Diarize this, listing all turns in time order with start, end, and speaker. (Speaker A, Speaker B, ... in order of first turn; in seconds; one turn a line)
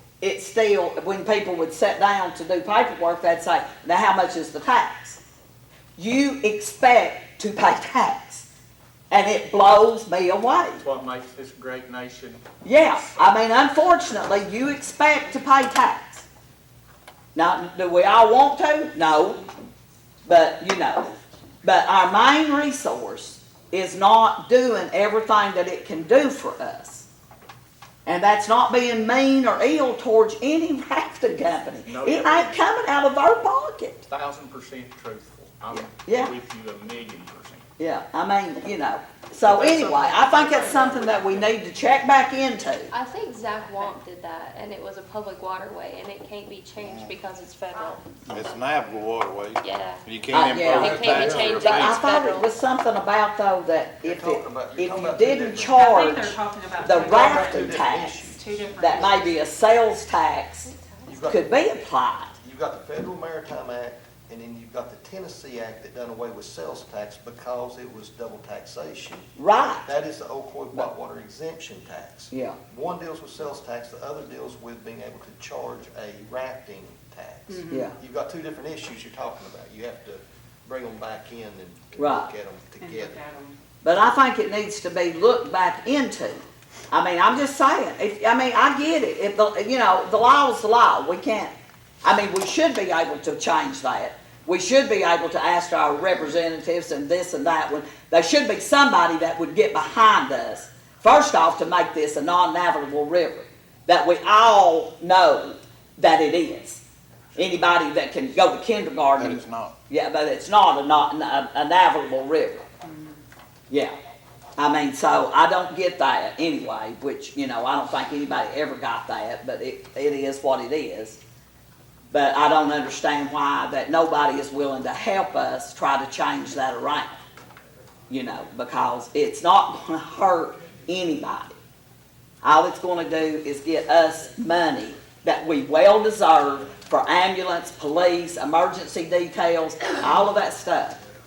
Speaker A: 0.2-5.2
Speaker A: 6.0-8.5
Speaker A: 9.1-10.8
Speaker B: 10.8-12.4
Speaker A: 12.6-16.3
Speaker A: 17.3-19.4
Speaker A: 20.2-21.1
Speaker A: 21.6-27.1
Speaker A: 28.1-34.0
Speaker B: 31.9-32.6
Speaker B: 34.0-37.6
Speaker A: 35.7-36.3
Speaker A: 37.8-42.9
Speaker B: 39.5-41.5
Speaker C: 42.9-48.6
Speaker D: 46.8-47.1
Speaker D: 48.3-52.0
Speaker C: 49.6-52.5
Speaker A: 50.3-60.7
Speaker E: 54.0-56.0
Speaker F: 55.7-57.8
Speaker E: 56.8-59.1
Speaker F: 58.3-59.3
Speaker C: 60.6-61.3
Speaker E: 61.1-61.7
Speaker A: 61.3-62.3
Speaker E: 62.4-69.3
Speaker A: 69.4-69.8
Speaker E: 69.8-83.2
Speaker A: 72.3-72.6
Speaker F: 77.5-77.9
Speaker A: 82.0-82.3
Speaker F: 82.8-83.6
Speaker A: 83.8-106.8
Speaker A: 107.3-112.6
Speaker D: 109.2-109.8
Speaker F: 112.8-113.2
Speaker A: 114.6-121.2
Speaker A: 122.1-127.2
Speaker A: 128.1-131.6
Speaker A: 132.4-141.0